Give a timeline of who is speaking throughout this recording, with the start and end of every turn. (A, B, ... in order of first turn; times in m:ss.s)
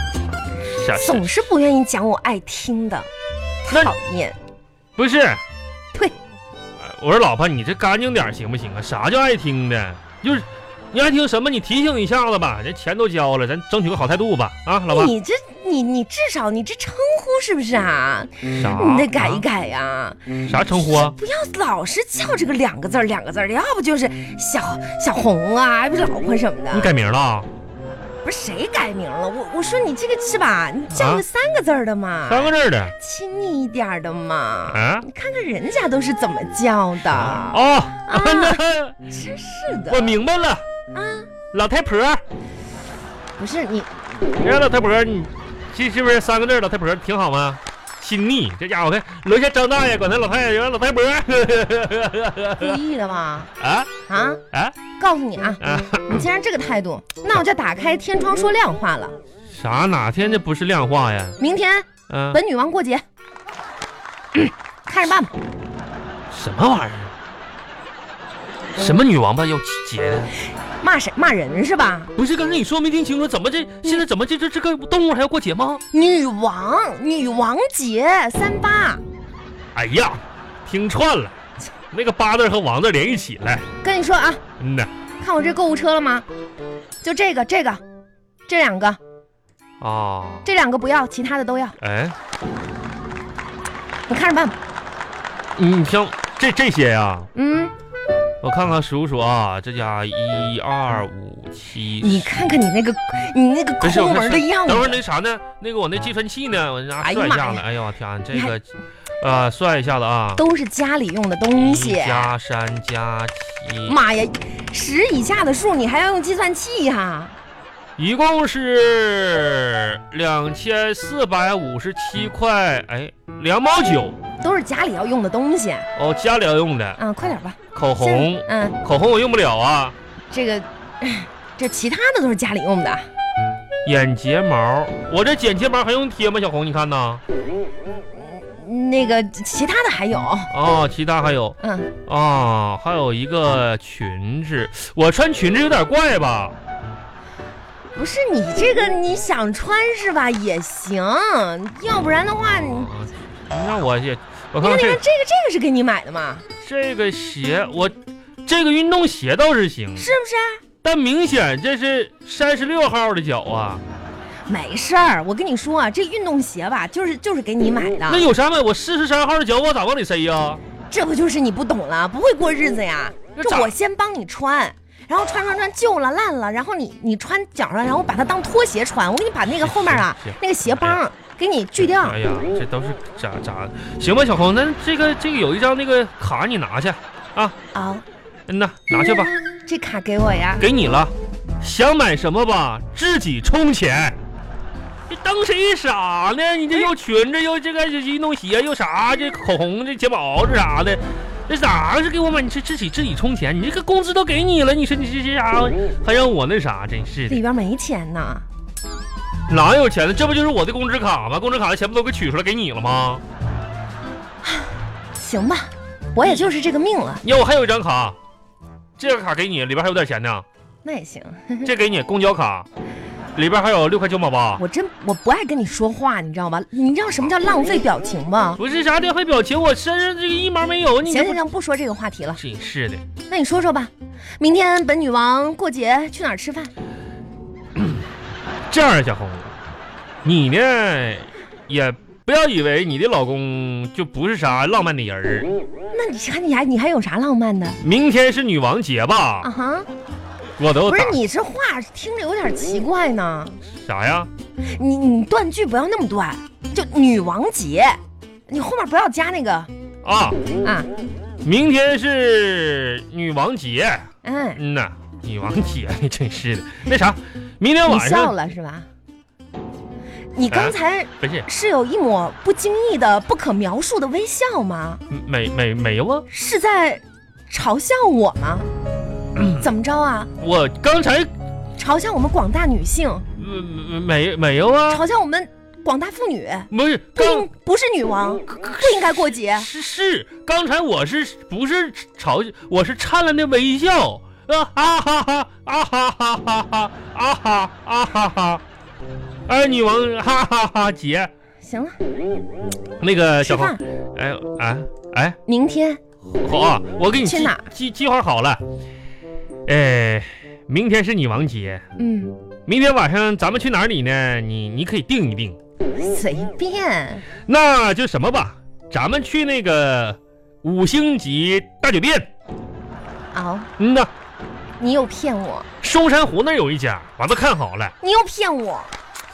0:00.7-0:01.3 A
0:00.9-0:03.1 B
0:03.7-0:04.4 B
0:03.7-0:03.9 A
0:05.0-0:05.4 A
0:06.8-0:15.1 A
0:14.9-0:26.9 B
0:18.6-0:19.4 A
0:20.4-0:21.2 A
0:26.7-0:27.5 A
0:28.2-0:40.2 B
0:30.9-0:31.2 A
0:32.3-0:33.0 A
0:34.7-0:35.0 A
0:37.0-0:39.0 A
0:39.9-0:40.6 A
0:40.9-0:41.3 B
0:41.5-0:42.2 A
0:43.4-0:44.3 B
0:44.4-0:52.8 A
0:52.6-0:53.5 B
0:53.6-0:53.9 A
0:54.1-0:54.4 B
0:54.5-0:54.8 A
0:55.0-0:59.2 B
0:55.6-0:56.2 A
0:59.5-1:01.4 A
1:01.4-1:03.0 B
1:02.1-1:02.4 A
1:04.3-1:05.4 B
1:06.3-1:07.1 A
1:08.8-1:10.3 A
1:10.8-1:12.1 B
1:12.2-1:15.8 A
1:15.9-1:19.0 B
1:19.7-1:21.4 A
1:21.9-1:23.7 A
1:23.8-1:24.4 B
1:24.6-1:24.9 A
1:25.2-1:26.3 B
1:27.0-1:27.8 B
1:28.5-1:29.0 B
1:29.8-1:30.5 A
1:30.4-1:31.8 B
1:31.8-1:32.2 A
1:34.1-1:34.6 B
1:35.6-1:37.3 A
1:37.4-1:37.7 B
1:38.4-1:42.3 A
1:42.0-1:45.0 B
1:43.8-1:48.7 A
1:47.0-1:47.6 B
1:49.2-1:50.4 A
1:50.4-1:52.3 B
1:51.5-1:54.0 A
1:53.9-1:57.4 B
1:58.0-2:04.2 A
2:04.4-2:05.9 B
2:06.0-2:07.0 A
2:07.0-2:08.8 B
2:07.7-2:10.0 A
2:10.3-2:13.1 B
2:13.8-2:17.2 A
2:18.2-2:20.5 B
2:20.5-2:26.6 A
2:21.6-2:21.9 B
2:28.0-2:32.9 B
2:32.5-2:35.0 A
2:34.6-2:36.4 B
2:36.6-2:40.1 A
2:40.0-2:40.6 B
2:40.8-2:43.8 A
2:44.5-2:48.3 B
2:48.1-2:50.6 A
2:50.9-3:02.2 B
2:53.4-2:53.7 A
2:59.6-3:01.0 A
3:01.8-3:07.6 A
3:07.7-3:08.0 B
3:08.5-3:09.3 A
3:09.7-3:10.6 B
3:10.6-3:14.2 A
3:15.1-3:27.4 A
3:27.3-3:28.5 B
3:29.5-3:33.2 A
3:34.4-3:37.2 B
3:37.2-3:38.2 A
3:39.0-3:40.4 A
3:40.8-3:41.7 B
3:41.6-3:42.7 A
3:43.4-3:44.6 A
3:44.6-3:48.6 B
3:48.6-3:51.4 A
3:51.0-3:52.4 B
3:52.4-3:53.0 A
3:53.3-3:56.7 B
3:57.8-3:58.0 A
3:58.7-3:59.6 A
4:00.2-4:05.5 A
4:05.9-4:07.8 B
4:07.8-4:09.5 A
4:09.4-4:09.9 B
4:10.6-4:11.2 A
4:10.8-4:13.6 B
4:13.8-4:14.3 A
4:14.7-4:19.7 B
4:20.0-4:20.4 A
4:20.6-4:20.9 B
4:21.4-4:28.3 A
4:24.2-4:24.6 B
4:27.9-4:28.9 B
4:30.4-4:35.0 B
4:30.5-4:31.5 A
4:35.1-4:36.3 A
4:36.3-4:38.7 B
4:39.4-4:39.7 A
4:39.6-4:40.3 B
4:40.4-4:41.3 A
4:41.8-4:43.3 B
4:43.4-4:45.0 A
4:44.9-4:49.7 B
4:46.7-4:47.5 A
4:48.5-4:58.6 A
4:59.5-5:01.3 A
5:01.6-5:02.0 B
5:03.0-5:05.4 A
5:03.4-5:03.8 B
5:05.5-5:06.0 B
5:06.4-5:08.6 A
5:07.2-5:07.7 B
5:09.7-5:11.8 A
5:12.0-5:12.4 B
5:12.7-5:15.6 A
5:16.0-5:17.2 B
5:17.5-5:22.3 A
5:23.3-5:23.7 B
5:23.8-5:24.1 A
5:24.8-5:25.7 B
5:25.8-5:27.9 A
5:28.0-5:28.9 B